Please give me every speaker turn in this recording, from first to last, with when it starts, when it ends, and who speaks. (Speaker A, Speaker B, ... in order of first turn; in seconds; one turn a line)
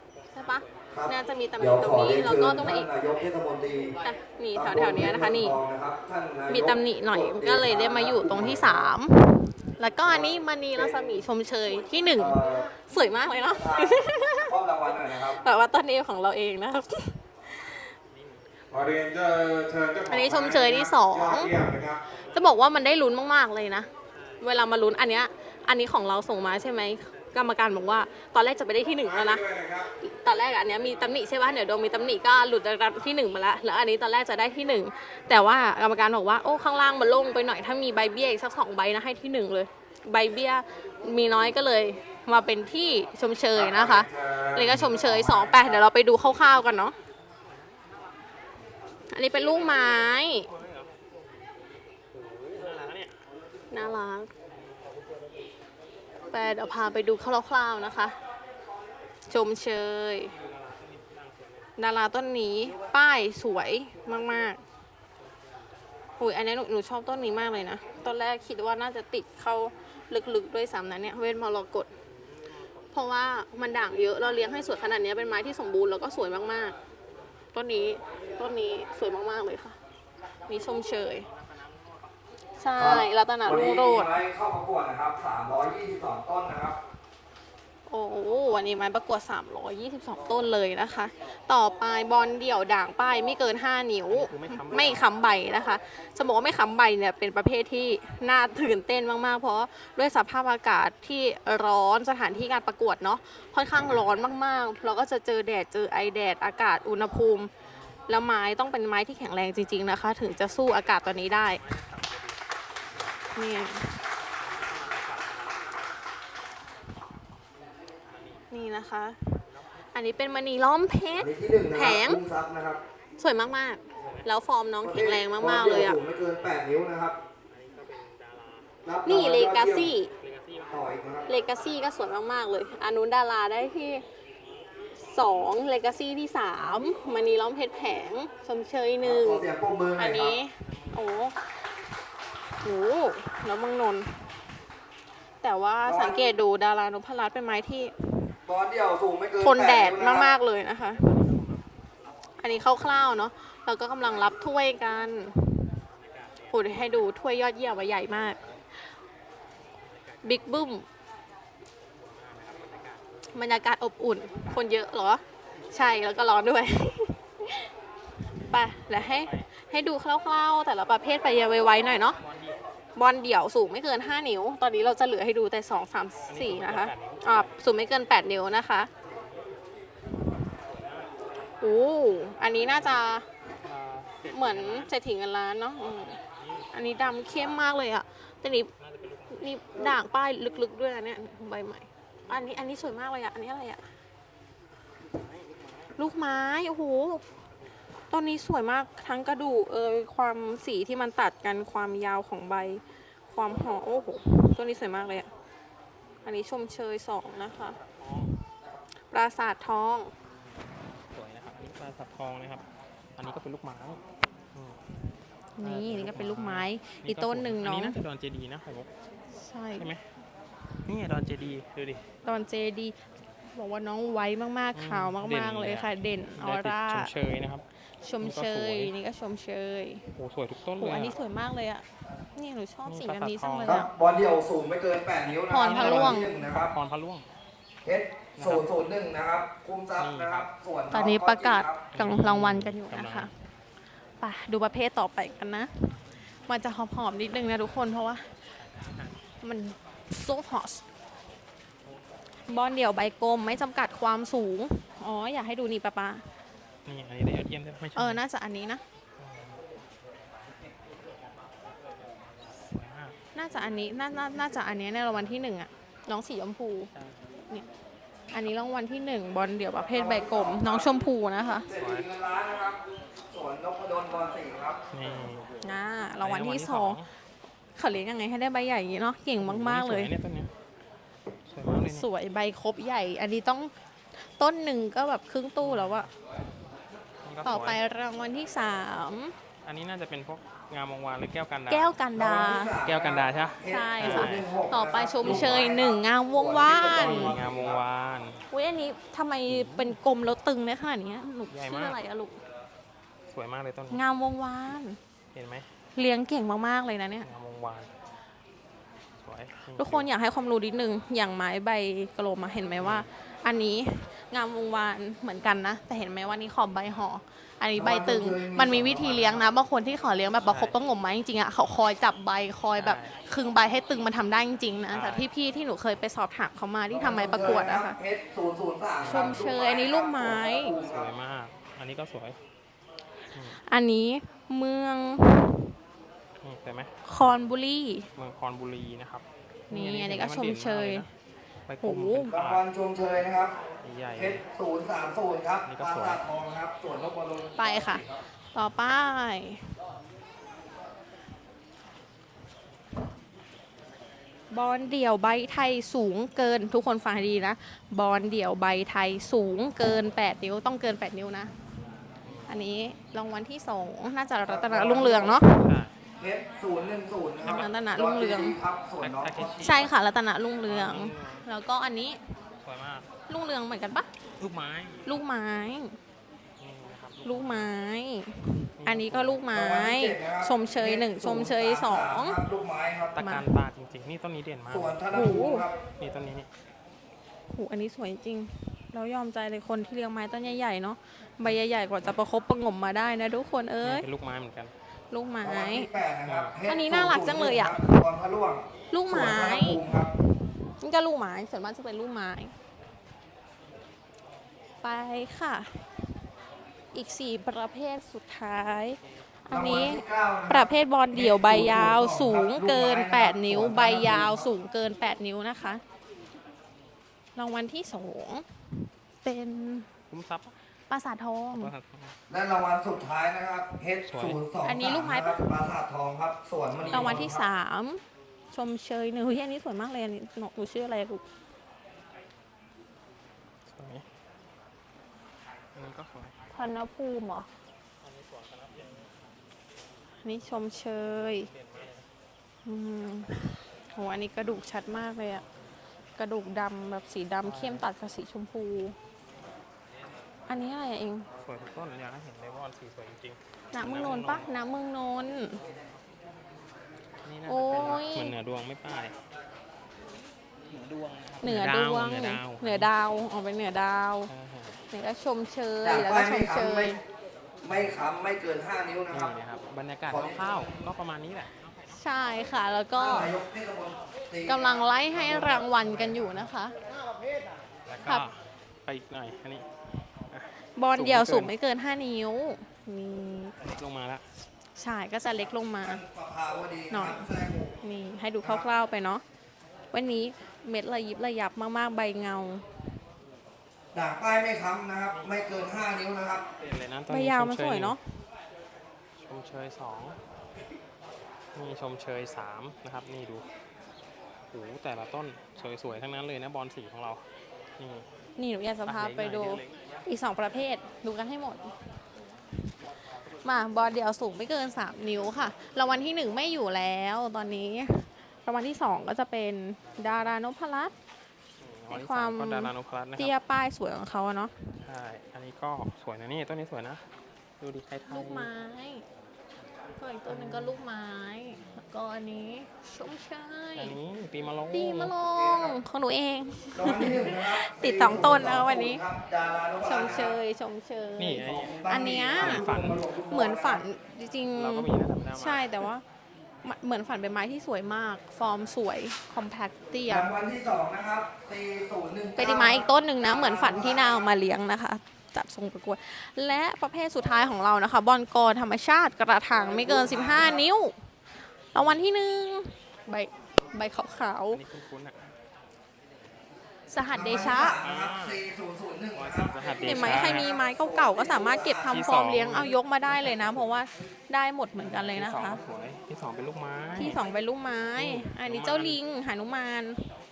Speaker A: 0.2-1.0
Speaker B: 0.3-2.9
Speaker C: 0.9-4.0
Speaker B: 4.0-5.6
Speaker C: 4.5-8.9
Speaker B: 6.5-14.6
Speaker C: 10.0-11.1
Speaker C: 12.2-12.7
Speaker C: 13.5-15.4
Speaker B: 15.1-17.9
Speaker A: 18.1-18.4
Speaker D: 18.7-22.0
Speaker B: 20.1-23.9
Speaker A: 24.1-24.4
Speaker B: 24.4-46.9
Speaker D: 29.0-29.9
Speaker D: 43.5-45.8
Speaker B: 49.1-50.5
Speaker A: 50.4-51.0
Speaker A: 52.1-53.2
Speaker B: 53.7-54.3
Speaker B: 56.3-58.1
Speaker B: 59.3-60.3
Speaker A: 60.3-61.7
Speaker B: 61.8-64.6
Speaker B: 66.2-71.9
Speaker A: 72.1-72.9
Speaker B: 72.9-76.8
Speaker B: 77.5-79.8
Speaker B: 80.5-81.3
Speaker A: 81.6-82.0
Speaker B: 82.6-84.2
Speaker C: 82.8-86.8
Speaker B: 87.9-107.5
Speaker A: 94.1-95.0
Speaker B: 108.1-111.6
Speaker A: 111.2-112.4
Speaker B: 113.3-114.0
Speaker A: 114.4-115.7
Speaker A: 118.1-118.6
Speaker B: 118.5-119.4
Speaker B: 119.9-122.2
Speaker C: 121.2-122.8
Speaker B: 123.2-126.0
Speaker A: 124.0-124.3
Speaker C: 124.8-127.2
Speaker A: 127.5-128.7
Speaker C: 128.8-129.9
Speaker B: 129.1-130.1
Speaker A: 130.1-130.8
Speaker C: 130.7-131.3
Speaker B: 131.3-134.0
Speaker B: 135.0-139.4
Speaker C: 139.0-140.3
Speaker B: 140.0-141.4
Speaker A: 140.6-141.3
Speaker B: 142.6-144.3
Speaker B: 145.4-147.9
Speaker C: 145.8-146.3
Speaker C: 148.4-150.3
Speaker B: 149.4-151.1
Speaker A: 150.9-151.7
Speaker B: 152.4-155.7
Speaker A: 155.9-157.1
Speaker B: 156.5-158.4
Speaker A: 159.8-160.8
Speaker B: 160.2-160.8
Speaker A: 161.9-163.2
Speaker B: 163.3-167.2
Speaker A: 168.5-169.5
Speaker B: 168.5-172.2
Speaker A: 172.0-172.6
Speaker B: 172.9-178.9
Speaker A: 176.3-177.6
Speaker A: 179.0-179.5
Speaker A: 180.5-181.1
Speaker B: 181.6-183.2
Speaker A: 182.6-183.0
Speaker A: 183.6-184.9
Speaker B: 184.3-186.2
Speaker A: 186.0-187.5
Speaker B: 186.7-188.7
Speaker A: 188.7-189.8
Speaker B: 189.3-193.8
Speaker B: 196.0-197.2
Speaker B: 198.1-205.3
Speaker B: 206.2-207.8
Speaker A: 207.6-208.4
Speaker B: 209.1-210.1
Speaker A: 211.1-212.6
Speaker A: 213.2-214.0
Speaker A: 214.5-214.8
Speaker B: 215.6-218.0
Speaker A: 215.6-218.9
Speaker B: 219.3-219.9
Speaker A: 219.8-220.0
Speaker A: 220.8-222.0
Speaker B: 222.2-222.9
Speaker B: 223.5-227.1
Speaker A: 224.7-227.6
Speaker B: 228.0-230.1
Speaker A: 228.2-228.9
Speaker A: 230.2-231.2
Speaker B: 230.7-233.9
Speaker A: 232.8-233.8
Speaker C: 233.6-236.7
Speaker A: 235.2-237.3
Speaker B: 235.5-236.3
Speaker C: 237.8-241.9
Speaker A: 238.4-238.7
Speaker A: 240.0-240.5
Speaker B: 240.9-243.3
Speaker A: 241.9-243.3
Speaker B: 244.2-248.3
Speaker A: 248.7-249.2
Speaker B: 249.4-250.8
Speaker B: 252.5-256.2
Speaker A: 256.9-258.2
Speaker B: 257.9-258.8
Speaker A: 259.2-259.6
Speaker A: 262.5-263.1
Speaker B: 263.3-266.9
Speaker A: 266.9-267.2
Speaker B: 268.3-271.7
Speaker C: 269.9-270.9
Speaker C: 271.7-274.8
Speaker A: 271.7-272.1
Speaker A: 274.9-275.6
Speaker B: 275.6-277.0
Speaker A: 276.2-277.1
Speaker B: 277.8-280.1
Speaker A: 279.4-280.5
Speaker A: 281.5-282.1
Speaker B: 281.8-286.1
Speaker A: 285.6-286.1
Speaker A: 287.2-287.8
Speaker B: 287.4-289.3
Speaker A: 289.6-292.0
Speaker B: 291.7-292.8
Speaker C: 292.1-297.8
Speaker A: 292.8-294.5
Speaker B: 293.6-297.3
Speaker A: 295.2-295.6
Speaker A: 296.9-298.4
Speaker B: 298.5-302.4
Speaker A: 299.5-299.9
Speaker A: 301.5-302.0
Speaker A: 303.3-304.0
Speaker B: 303.9-305.0
Speaker A: 305.3-305.7
Speaker B: 305.9-307.3
Speaker A: 307.2-307.9
Speaker A: 309.2-310.1
Speaker B: 309.8-328.0
Speaker A: 312.8-313.1
Speaker C: 317.7-319.5
Speaker A: 320.5-320.7
Speaker A: 322.8-323.2
Speaker A: 324.9-325.3
Speaker C: 326.9-331.1
Speaker A: 329.0-329.6
Speaker B: 329.1-330.7
Speaker A: 330.6-332.4
Speaker A: 333.3-333.6
Speaker B: 333.5-335.7
Speaker A: 336.4-336.9
Speaker B: 337.0-338.1
Speaker A: 338.1-341.1
Speaker B: 339.7-341.1
Speaker A: 341.7-342.6
Speaker B: 341.8-342.3
Speaker C: 342.3-343.6
Speaker A: 343.8-344.4
Speaker C: 344.1-348.2
Speaker A: 345.6-346.2
Speaker B: 347.6-349.7
Speaker B: 354.5-361.5
Speaker A: 362.2-362.6
Speaker B: 362.5-365.7
Speaker C: 364.4-365.4
Speaker A: 365.5-365.9
Speaker C: 366.2-369.7
Speaker B: 367.4-368.6
Speaker A: 369.0-369.9
Speaker B: 369.6-372.2
Speaker A: 370.6-371.4
Speaker A: 372.6-373.1
Speaker B: 373.3-374.1
Speaker A: 374.4-375.1
Speaker B: 375.0-376.0
Speaker A: 376.6-377.7
Speaker B: 377.2-382.4
Speaker A: 378.8-379.5
Speaker C: 379.5-383.2
Speaker A: 383.1-385.0
Speaker B: 383.2-383.5
Speaker C: 384.7-385.8
Speaker B: 385.1-385.6
Speaker A: 386.0-386.5
Speaker B: 387.5-394.1
Speaker A: 393.8-394.7
Speaker B: 395.1-395.9
Speaker C: 395.4-400.1
Speaker A: 396.2-396.6
Speaker B: 396.6-398.0
Speaker B: 398.9-402.5
Speaker B: 404.8-406.2
Speaker B: 406.9-415.8
Speaker C: 409.5-414.4
Speaker B: 417.3-418.6
Speaker B: 419.2-419.9
Speaker A: 420.1-420.5
Speaker B: 420.9-421.7
Speaker A: 421.5-422.2
Speaker C: 422.3-427.4
Speaker A: 424.1-424.4
Speaker B: 424.6-425.7
Speaker A: 426.8-427.4
Speaker B: 426.9-431.2
Speaker A: 433.7-434.0
Speaker A: 435.7-436.3
Speaker B: 436.5-437.5
Speaker A: 438.0-439.1
Speaker B: 440.2-441.5
Speaker A: 440.6-442.1
Speaker B: 442.6-445.4
Speaker B: 446.1-448.9
Speaker A: 447.4-447.9
Speaker B: 450.5-451.3
Speaker A: 451.4-454.5
Speaker B: 453.7-455.6
Speaker A: 457.2-459.2
Speaker B: 457.4-458.3
Speaker A: 460.7-462.9
Speaker B: 461.4-464.3
Speaker A: 464.3-464.8
Speaker B: 464.9-467.0
Speaker C: 465.8-466.9
Speaker C: 467.6-469.4
Speaker A: 467.6-468.0
Speaker A: 469.1-472.1
Speaker C: 470.1-470.7
Speaker B: 471.9-473.3
Speaker C: 473.0-475.8
Speaker B: 474.4-476.7
Speaker A: 475.8-476.5
Speaker A: 477.8-481.5
Speaker B: 480.8-483.6
Speaker A: 483.6-484.2
Speaker B: 484.8-486.0
Speaker C: 485.8-487.8
Speaker B: 486.9-489.2
Speaker C: 488.4-488.7
Speaker B: 489.9-492.8
Speaker C: 493.9-496.4
Speaker A: 495.1-495.5
Speaker A: 496.6-498.0
Speaker B: 497.1-498.2
Speaker A: 499.2-500.2
Speaker A: 501.5-503.4
Speaker A: 504.5-507.2
Speaker A: 507.8-508.1
Speaker B: 508.4-511.8
Speaker A: 508.8-510.0
Speaker B: 513.3-520.9
Speaker A: 521.6-523.3
Speaker B: 521.9-524.8
Speaker A: 524.8-527.0
Speaker A: 527.6-528.5
Speaker B: 528.1-529.0
Speaker B: 530.0-534.0
Speaker A: 530.3-530.8
Speaker A: 533.8-535.1
Speaker B: 534.7-539.0
Speaker C: 535.3-535.8
Speaker C: 536.7-540.4
Speaker B: 539.8-546.0
Speaker A: 541.2-541.8
Speaker C: 541.4-543.8
Speaker A: 542.4-543.0
Speaker A: 544.5-545.9
Speaker B: 546.6-550.3
Speaker C: 550.1-554.3
Speaker B: 552.4-561.0
Speaker C: 559.5-560.6
Speaker B: 561.7-564.6
Speaker A: 561.8-562.0
Speaker A: 564.5-565.4
Speaker B: 566.9-567.8
Speaker C: 567.1-572.0
Speaker A: 567.4-568.5
Speaker A: 569.1-570.5
Speaker B: 569.8-575.6
Speaker A: 571.8-573.8
Speaker A: 574.8-577.2
Speaker B: 577.0-580.1
Speaker A: 578.0-579.0